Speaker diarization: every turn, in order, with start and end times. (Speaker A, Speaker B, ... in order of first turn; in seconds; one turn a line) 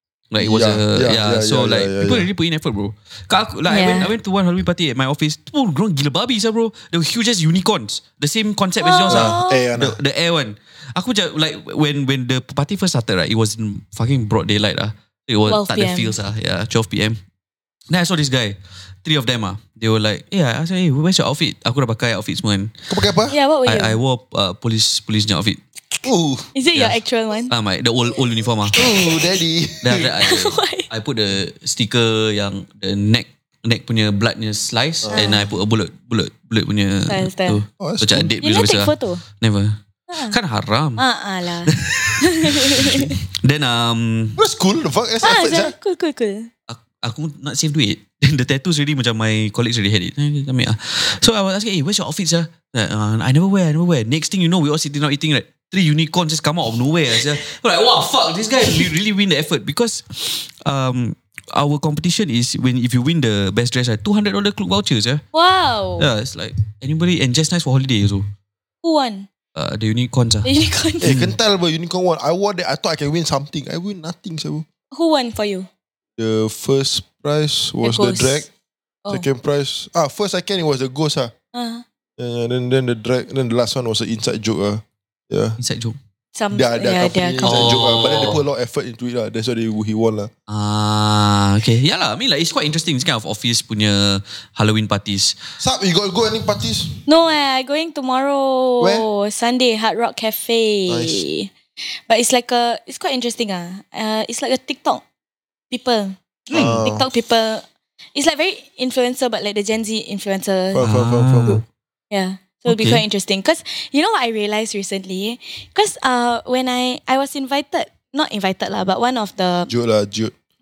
Speaker A: 0.3-17.2
Speaker B: 0.4-2.3
Speaker C: 3.7-4.1
Speaker C: 8.8-9.6
Speaker B: 9.1-10.0
Speaker C: 15.5-16.1
Speaker A: 17.9-22.7
Speaker B: 22.9-23.4
Speaker C: 23.3-24.0
Speaker A: 23.7-25.6
Speaker B: 26.0-26.5
Speaker C: 26.5-27.5
Speaker A: 27.5-28.8
Speaker B: 28.7-30.2
Speaker A: 29.8-39.8
Speaker C: 30.2-30.9
Speaker B: 35.0-35.3
Speaker C: 35.1-35.5
Speaker C: 37.1-37.6
Speaker B: 37.8-38.3
Speaker C: 38.4-39.2
Speaker C: 40.1-40.4
Speaker A: 40.3-41.0
Speaker C: 41.0-43.2
Speaker A: 41.7-44.4
Speaker B: 44.4-45.7
Speaker C: 45.2-46.5
Speaker A: 46.7-65.2
Speaker C: 65.3-66.1
Speaker A: 66.0-68.3
Speaker C: 68.8-69.3
Speaker A: 69.5-70.5
Speaker C: 70.5-71.1
Speaker B: 71.0-74.7
Speaker A: 71.0-71.4
Speaker C: 74.9-75.7
Speaker B: 76.2-78.5
Speaker C: 77.8-78.5
Speaker B: 79.1-81.3
Speaker C: 81.5-81.8
Speaker B: 82.2-85.6
Speaker A: 85.6-86.0
Speaker C: 86.3-87.8
Speaker B: 86.5-90.3
Speaker A: 87.4-88.4
Speaker A: 90.5-95.4
Speaker B: 95.6-97.0
Speaker C: 97.1-101.5
Speaker B: 98.8-99.1
Speaker B: 100.9-101.2
Speaker C: 102.1-105.0
Speaker C: 105.7-110.9
Speaker A: 106.5-106.8
Speaker B: 106.5-107.1
Speaker B: 110.7-111.6
Speaker A: 110.8-111.6
Speaker C: 112.1-119.7
Speaker A: 112.7-113.0
Speaker B: 119.7-120.3